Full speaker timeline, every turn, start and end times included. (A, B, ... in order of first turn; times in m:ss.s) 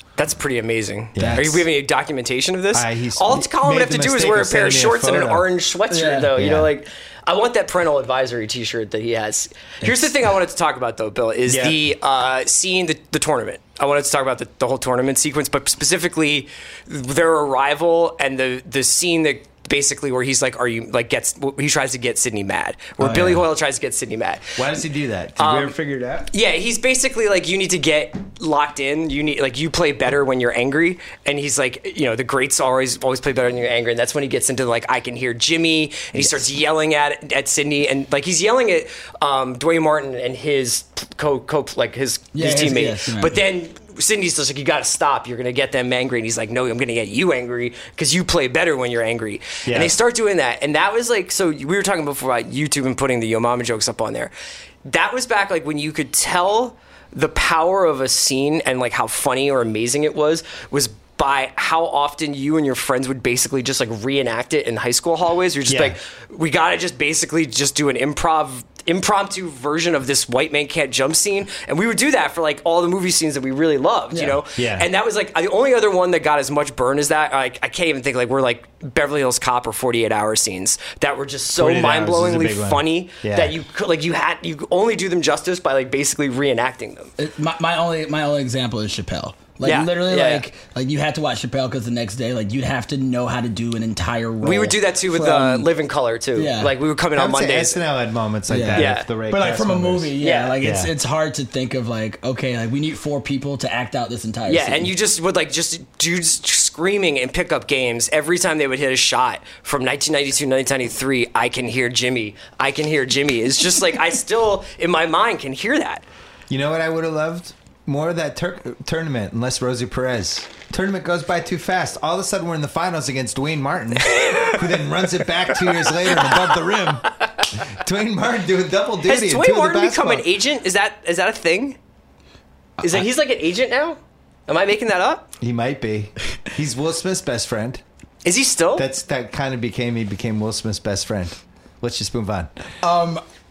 0:00.2-0:24.6 A
0:01.1-0:01.7 B
0:02.7-0:05.5 B
0:05.9-0:06.3 C
0:06.3-0:06.7 B
0:09.8-0:10.1 C
0:11.5-0:11.8 B
0:23.0-0:23.4 B
0:24.6-0:26.3 B
0:25.4-0:25.8 A
0:26.3-0:54.3 A
0:42.3-0:43.4 C
0:49.6-0:49.9 B
0:54.8-1:27.1 A
1:05.7-1:06.0 B
1:14.1-1:14.4 C
1:14.6-1:14.9 B
1:21.5-1:23.5 B
1:27.2-1:35.7 C
1:29.6-1:30.4 A
1:34.4-1:37.8 A
1:36.3-1:36.7 C
1:37.1-1:40.9 B
1:38.5-1:44.9 C
1:38.7-1:39.1 A
1:40.2-1:40.6 A
1:44.5-1:56.0 A
1:56.5-2:10.2 B
2:04.1-2:04.6 A
2:09.0-2:11.8 A
2:12.8-2:15.3 A
2:15.4-2:17.8 B
2:18.2-2:18.9 A
2:18.8-2:22.5 B
2:22.8-2:23.2 C